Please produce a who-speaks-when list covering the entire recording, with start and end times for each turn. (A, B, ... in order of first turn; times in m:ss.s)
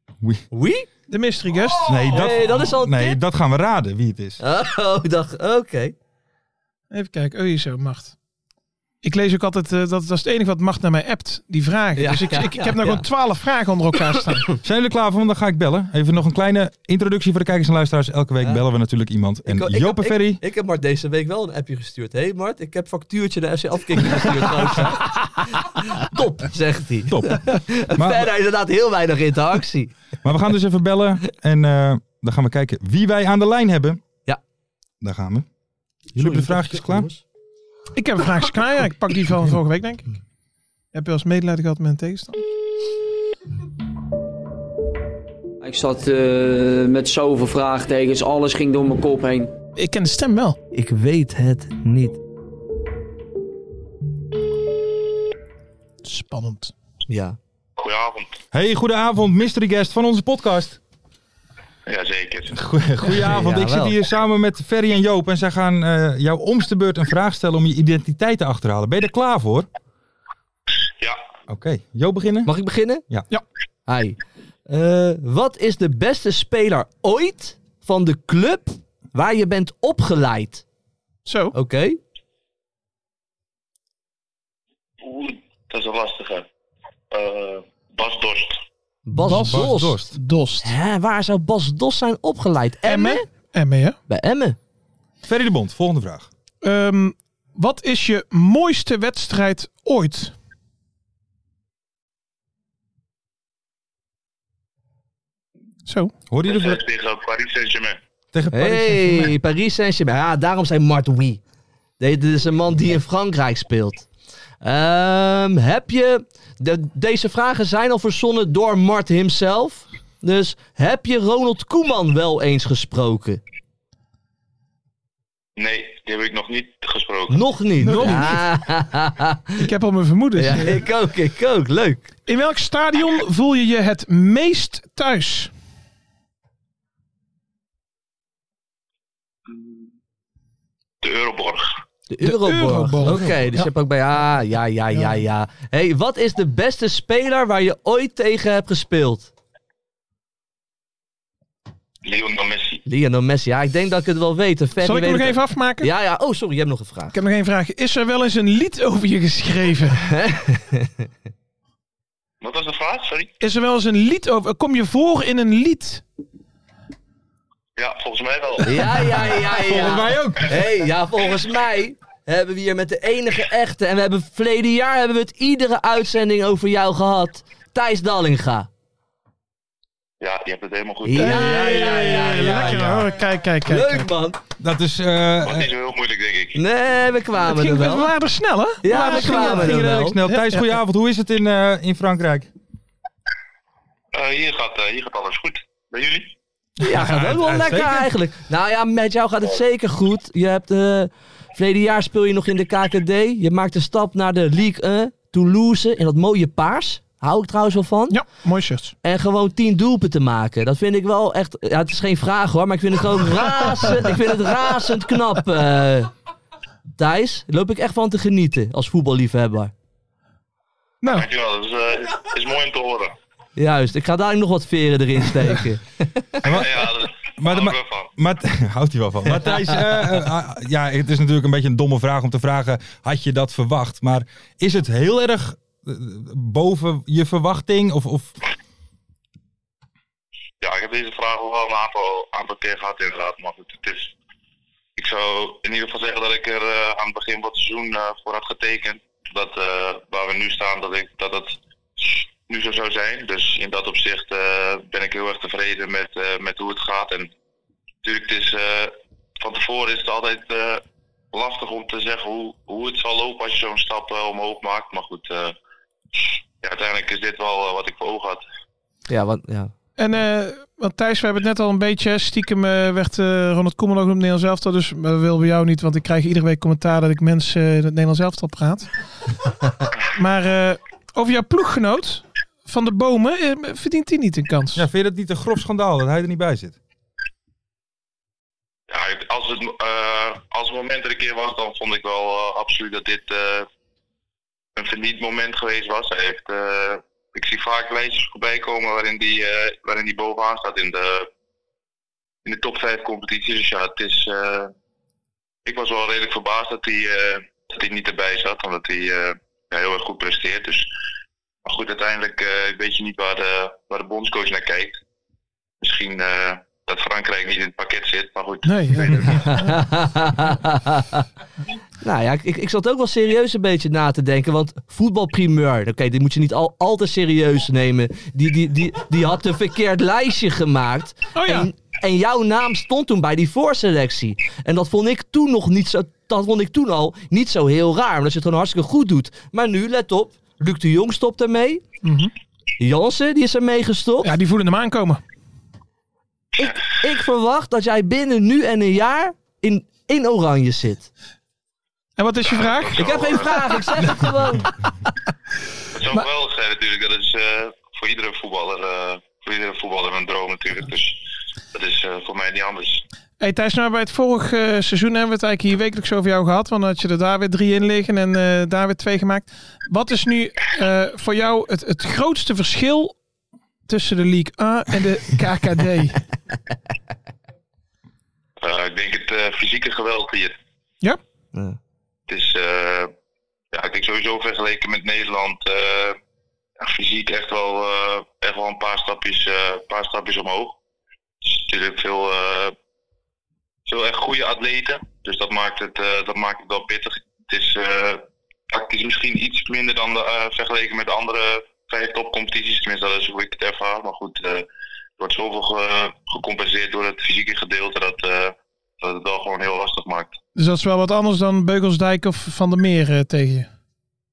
0:00.5-0:00.9 A
0:01.1-0:02.0 B
0:01.9-0:04.4 C
0:02.0-0:03.2 A
0:04.4-0:05.9 A
0:06.9-0:08.1 B
0:09.0-0:14.5 B
0:12.0-0:13.0 A
0:14.6-0:20.4 C
0:19.4-0:29.9 A
0:27.1-0:28.3 C
0:30.2-0:34.0 C
0:35.0-0:35.4 C
0:36.1-0:37.1 C
0:36.2-0:37.2 A
0:37.9-0:40.1 B
0:40.9-0:42.4 B
0:45.6-0:49.5 D
0:49.8-0:50.6 B
0:50.7-0:52.2 A
0:56.0-0:56.7 B
0:57.1-0:57.4 A
0:57.8-0:58.4 E
0:58.5-1:00.8 C
1:01.9-1:02.6 E
1:02.5-1:09.7 C
1:03.0-1:03.9 A
1:11.5-1:12.5 C
1:12.4-1:13.0 A
1:13.9-1:20.6 A
1:21.2-1:21.5 B
1:21.5-1:22.0 A
1:25.0-1:26.4 E
1:27.1-1:28.6 E
1:29.0-1:30.1 A
1:29.2-1:30.7 B
1:29.3-1:30.1 C
1:30.6-1:33.2 A
1:32.8-1:34.0 B
1:34.1-1:34.6 A
1:35.2-1:36.3 C
1:36.6-1:40.3 B
1:45.9-1:46.1 B
1:46.3-1:46.8 C
1:46.4-1:48.0 E
1:48.3-1:49.3 C
1:48.5-1:51.4 A
1:52.0-1:54.1 A
1:54.6-2:03.4 A
2:05.6-2:07.4 E
2:07.3-2:09.6 A
2:07.8-2:08.4 B
2:09.6-2:10.8 B
2:10.4-2:12.1 A
2:12.3-2:15.5 B
2:21.0-2:21.7 E
2:22.1-2:29.3 A
2:22.2-2:23.7 B
2:32.0-2:32.8 E
2:32.8-2:37.2 A
2:34.8-2:35.9 B
2:37.1-2:40.0 B
2:40.0-2:40.9 A
2:42.4-2:43.3 E
2:43.4-2:46.0 B
2:47.8-2:49.2 E
2:48.6-2:58.7 A
2:49.4-2:50.6 C
3:00.2-3:01.5 E
3:01.0-3:02.9 A
3:01.2-3:04.1 B
3:01.2-3:03.1 C
3:03.6-3:04.4 A
3:04.6-3:05.7 C
3:05.4-3:06.6 E
3:06.5-3:08.1 A
3:07.4-3:10.6 B
3:08.8-3:10.2 A
3:08.9-3:12.5 C
3:14.1-3:16.3 E
3:16.8-3:18.1 C
3:16.8-3:28.2 A
3:28.1-3:28.9 B
3:29.0-3:36.1 A
3:37.0-3:39.7 A
3:41.0-3:41.3 B
3:41.1-3:43.1 E
3:43.6-3:46.4 A
3:46.4-3:46.9 C
3:46.4-3:48.1 E
3:47.4-3:58.3 C
3:49.3-3:49.8 A
4:00.6-4:04.1 E
4:05.0-4:17.3 E
4:18.0-4:25.5 E
4:26.1-4:28.4 E
4:29.1-4:29.7 A
4:30.0-4:38.9 B
4:40.0-4:44.8 B
4:44.7-4:46.8 C
4:48.9-4:53.7 E
4:54.8-5:01.3 E
5:02.4-5:04.7 E
5:05.6-5:10.9 E
5:11.6-5:15.0 E
5:15.8-5:19.7 E
5:18.6-5:19.2 B
5:19.4-5:21.2 A
5:22.0-5:41.8 A
5:31.3-5:31.7 B
5:42.0-5:42.3 B
5:42.8-5:44.3 A
5:44.2-5:45.2 B
5:46.6-5:51.1 A
5:52.2-5:53.6 B
5:52.4-5:53.6 E
5:53.0-5:54.7 A
5:55.9-6:03.0 E
6:03.4-6:13.1 B
6:13.9-6:16.2 B
6:18.6-6:20.5 E
6:22.3-6:23.1 E
6:23.7-6:26.2 E
6:26.8-6:30.8 E
6:31.4-6:32.7 E
6:33.8-6:44.6 E
6:45.2-6:50.3 E
6:50.6-6:53.7 B